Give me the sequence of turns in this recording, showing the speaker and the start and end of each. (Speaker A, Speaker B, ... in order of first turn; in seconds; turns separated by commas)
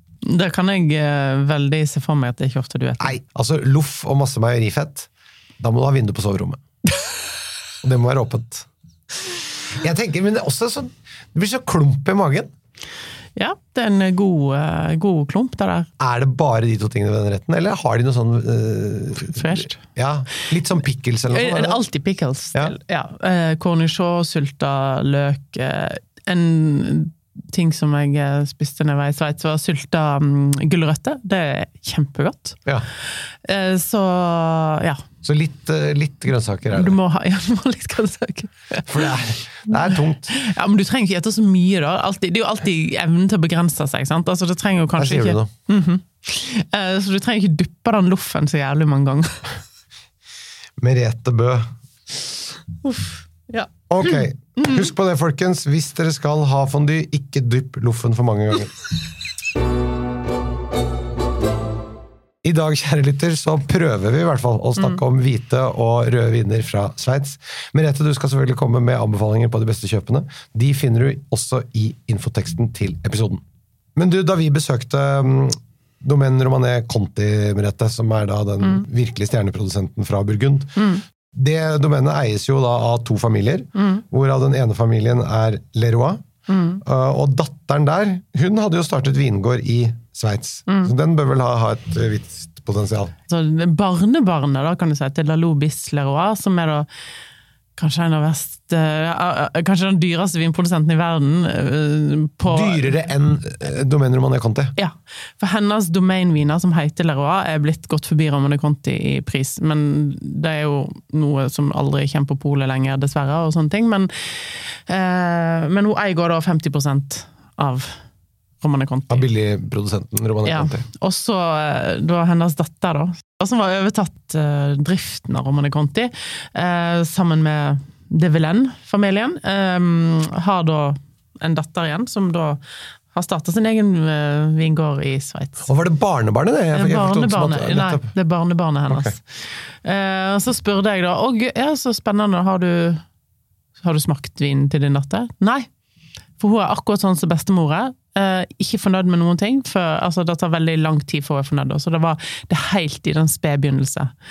Speaker A: 0.2-3.1, Speaker B: 3.0-6.6, Speaker B: 7.8-8.7, Speaker B: 9.8-12.5, Speaker A: 13.4-15.9, Speaker B: 16.0-21.8, Speaker A: 19.1-19.8, Speaker A: 21.3-32.6, Speaker A: 33.4-35.0, Speaker B: 35.2-37.0, Speaker A: 36.7-39.1, Speaker B: 38.9-40.3, Speaker A: 39.7-49.4, Speaker B: 45.0-45.5, Speaker B: 50.8-51.7, Speaker A: 52.8-54.9, Speaker B: 53.9-58.7, Speaker B: 62.4-73.4, Speaker A: 64.8-65.0, Speaker B: 74.0-86.2, Speaker A: 80.8-81.0, Speaker A: 83.8-84.0, Speaker A: 86.5-86.8, Speaker B: 86.8-93.1, Speaker A: 93.3-96.9, Speaker A: 97.8-103.0, Speaker B: 102.5-104.7, Speaker A: 104.8-118.0, Speaker A: 118.6-119.3, Speaker B: 119.1-120.9, Speaker A: 120.4-132.6, Speaker A: 133.1-135.7, Speaker B: 135.7-138.1, Speaker A: 136.7-143.0, Speaker B: 138.9-139.2, Speaker A: 143.8-145.7, Speaker A: 146.4-154.1